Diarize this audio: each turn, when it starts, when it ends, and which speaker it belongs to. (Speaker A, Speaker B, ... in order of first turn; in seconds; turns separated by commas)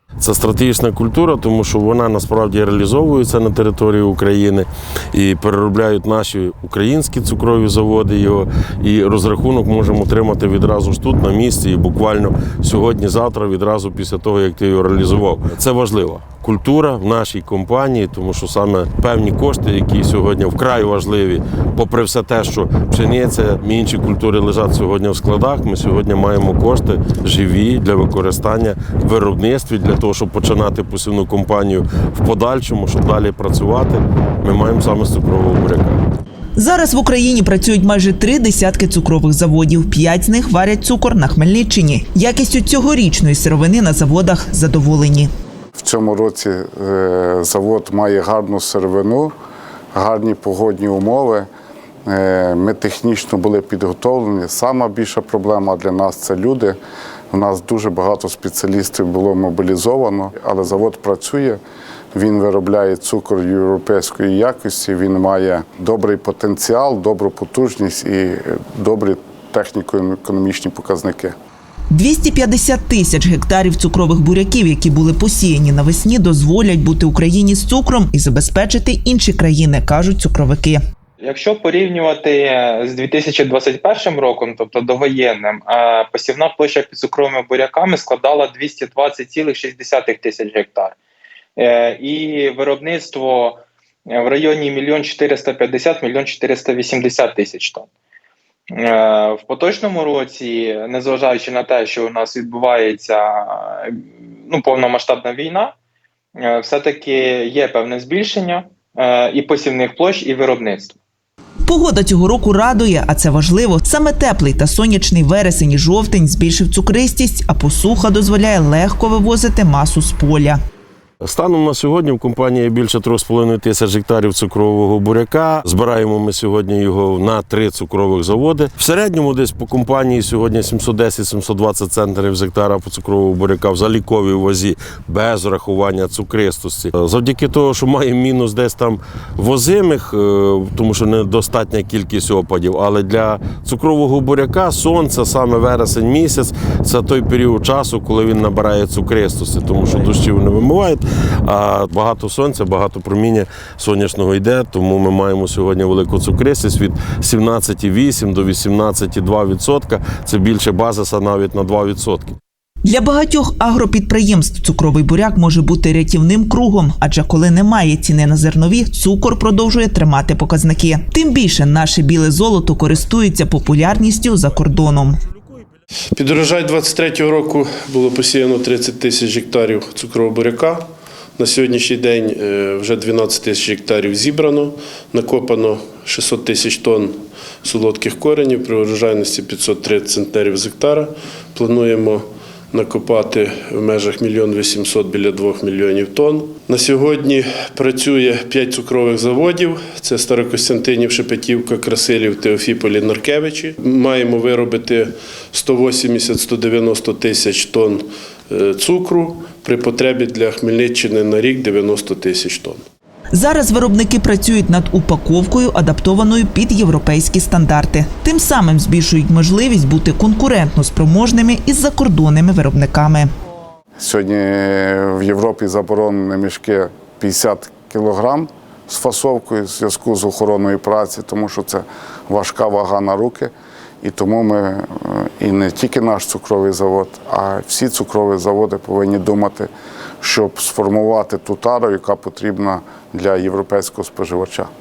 Speaker A: 0.2-36.0, Speaker B: 36.5-45.3, Speaker C: 45.8-49.3, Speaker C: 49.9-51.5, Speaker C: 52.1-56.8, Speaker C: 57.3-61.6, Speaker C: 62.1-71.3, Speaker B: 71.9-80.8, Speaker D: 81.2-91.0, Speaker D: 91.6-93.6, Speaker D: 94.1-97.9, Speaker D: 98.7-105.7, Speaker D: 106.4-111.0, Speaker B: 111.7-120.6, Speaker A: 121.2-162.4, Speaker B: 162.8-175.2, Speaker E: 176.1-212.8, Speaker B: 213.3-223.3, Speaker C: 224.0-233.5, Speaker C: 234.0-239.7, Speaker C: 240.2-244.7